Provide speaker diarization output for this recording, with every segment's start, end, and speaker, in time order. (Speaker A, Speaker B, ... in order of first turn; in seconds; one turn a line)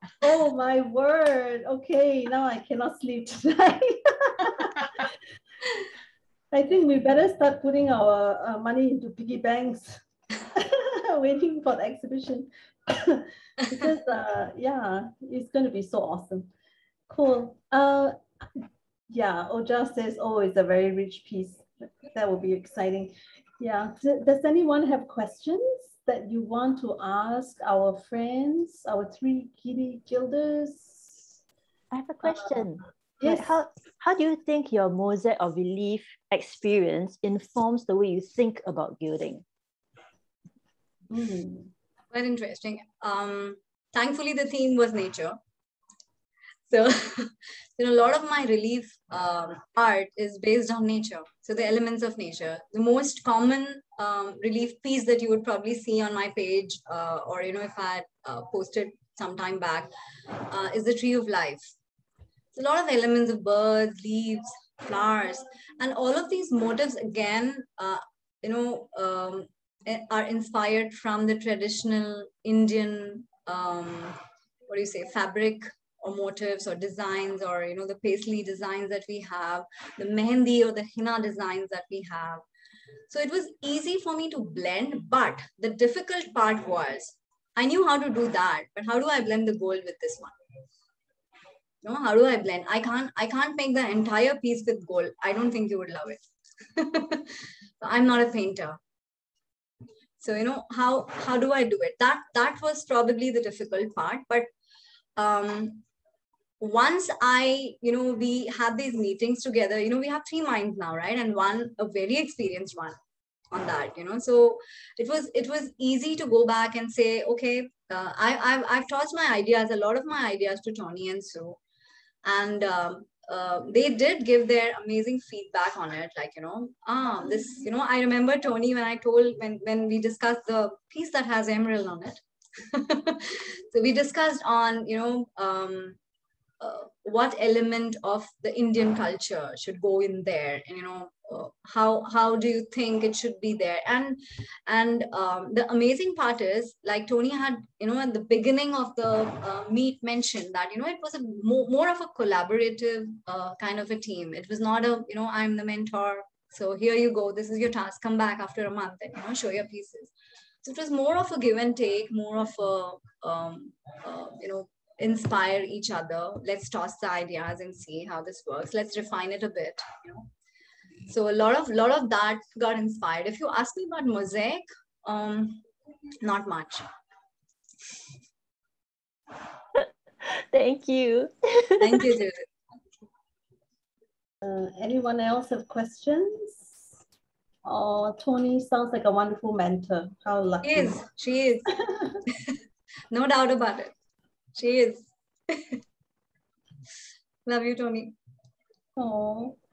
Speaker A: 0.2-4.9
Speaker A: 6.5-16.5
Speaker A: 17.1-31.2
Speaker B: 31.9-39.4
Speaker A: 32.2-32.6
Speaker A: 33.2-33.5
Speaker A: 41.1-41.7
Speaker C: 42.1-45.4
Speaker C: 46.7-59.9
Speaker C: 60.5-61.7
Speaker C: 62.5-82.4
Speaker C: 83.1-90.3
Speaker C: 91.8-96.2
Speaker C: 96.8-98.8
Speaker C: 100.2-104.5
Speaker C: 105.2-105.8
Speaker C: 106.6-113.0
Speaker C: 113.5-121.6
Speaker C: 122.2-136.0
Speaker C: 136.6-160.1
Speaker C: 160.6-170.1
Speaker C: 171.1-175.6
Speaker C: 176.2-176.8
Speaker B: 179.8-182.1
Speaker C: 181.8-182.5
Speaker A: 184.4-186.7
Speaker A: 187.7-191.0
Speaker C: 190.6-191.8
Speaker C: 193.1-193.9
Speaker C: 194.6-195.8
Speaker C: 197.5-198.1
Speaker A: 199.0-199.6